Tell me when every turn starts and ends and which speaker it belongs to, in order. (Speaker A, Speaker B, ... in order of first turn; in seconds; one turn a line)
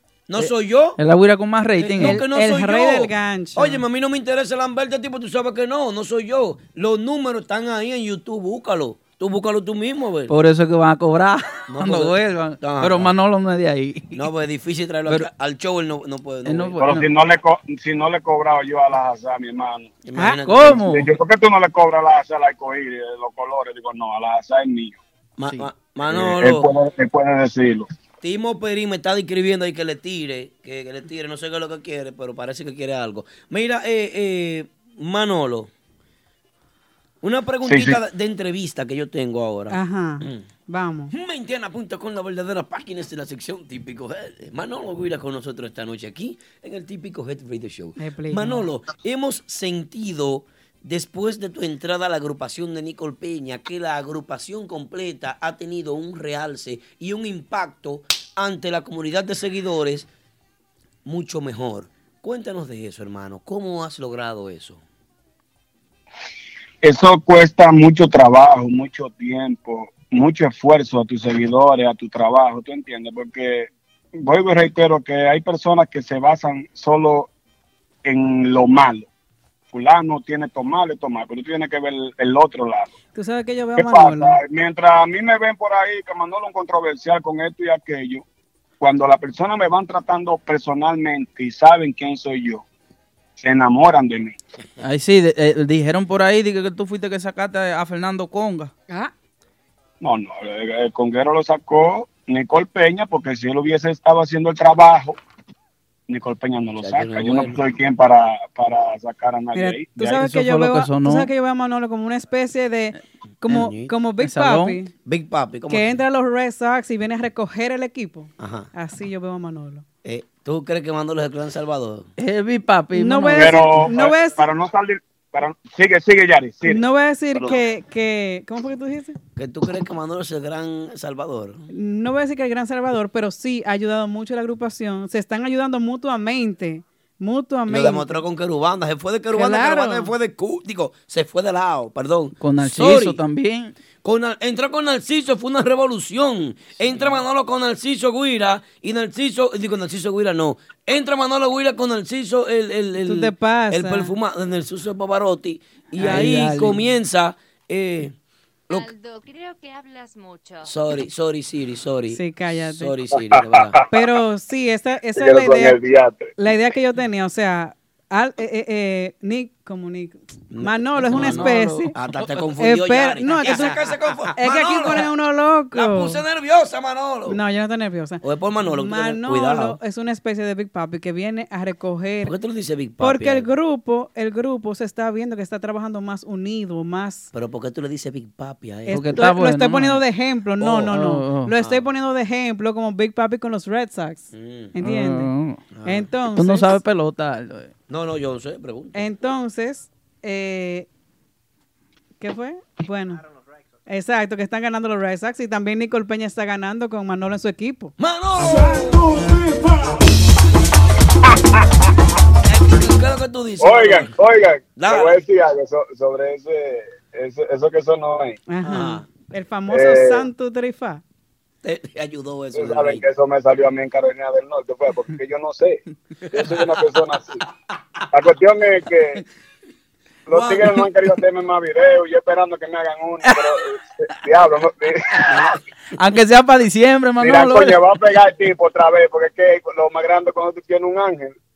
Speaker A: 0.3-1.0
Speaker B: 1.0-2.2
Speaker A: 1.8-10.3
Speaker C: 2.0-3.8
Speaker B: 10.3-14.2
Speaker A: 11.7-13.1
Speaker A: 14.1-17.0
Speaker B: 16.4-17.1
Speaker D: 16.8-19.9
Speaker A: 20.1-20.9
Speaker B: 20.2-21.1
Speaker D: 20.9-25.0
Speaker A: 25.4-26.7
Speaker D: 26.0-27.9
Speaker A: 28.2-35.7
Speaker A: 37.2-40.4
Speaker D: 37.6-38.0
Speaker C: 39.7-41.1
Speaker A: 41.1-60.1
Speaker C: 48.0-48.7
Speaker A: 61.0-64.8
Speaker D: 66.8-77.3
Speaker D: 78.0-79.1
Speaker D: 79.7-82.9
Speaker C: 83.1-84.4
Speaker D: 83.8-88.2
Speaker D: 88.8-92.7
Speaker D: 93.4-94.4
Speaker B: 94.8-98.7
Speaker D: 100.0-105.2
Speaker D: 106.1-110.2
Speaker A: 106.8-107.6
Speaker C: 109.5-114.9
Speaker B: 110.2-111.3
Speaker A: 113.5-113.9
Speaker B: 114.2-114.8
Speaker A: 115.0-115.9
Speaker C: 115.7-119.8
Speaker A: 118.4-118.7
Speaker A: 120.0-122.1
Speaker B: 122.2-123.9
Speaker C: 122.9-124.4
Speaker D: 123.3-126.8
Speaker C: 126.7-129.2
Speaker A: 129.4-131.7
Speaker C: 131.7-138.2
Speaker A: 137.7-143.2
Speaker C: 139.3-140.1
Speaker B: 142.4-143.8
Speaker A: 144.0-158.2
Speaker C: 153.1-154.1
Speaker B: 156.0-156.9
Speaker C: 156.0-156.5
Speaker E: 158.7-160.7
Speaker A: 160.6-163.8
Speaker C: 162.1-163.0
Speaker D: 163.2-164.1
Speaker C: 163.9-165.8
Speaker D: 165.1-166.3
Speaker C: 166.4-171.9
Speaker A: 170.5-175.1
Speaker B: 171.1-172.5
Speaker C: 172.6-173.8
Speaker C: 174.3-176.2
Speaker A: 175.7-177.4
Speaker C: 177.3-182.3
Speaker A: 178.2-179.8
Speaker A: 182.2-183.5
Speaker C: 183.0-187.3
Speaker A: 187.3-189.2
Speaker C: 188.9-195.3
Speaker B: 188.9-190.0
Speaker B: 190.6-191.5
Speaker A: 191.6-191.9
Speaker A: 194.3-194.7
Speaker B: 194.8-195.6
Speaker A: 195.7-196.1
Speaker C: 195.8-196.8
Speaker B: 196.3-197.7
Speaker A: 197.9-199.1
Speaker C: 198.9-200.9
Speaker C: 202.2-203.2
Speaker C: 203.9-207.9
Speaker A: 208.0-209.1
Speaker A: 212.5-214.2
Speaker D: 213.6-218.4
Speaker A: 214.8-215.2
Speaker C: 218.5-221.0
Speaker A: 218.6-219.1
Speaker D: 219.7-220.3
Speaker A: 221.6-223.1
Speaker D: 222.5-227.4
Speaker A: 226.3-226.6
Speaker D: 228.1-229.2
Speaker D: 230.3-235.4
Speaker A: 230.3-230.9
Speaker A: 235.2-235.6
Speaker B: 236.0-237.8
Speaker D: 237.2-241.4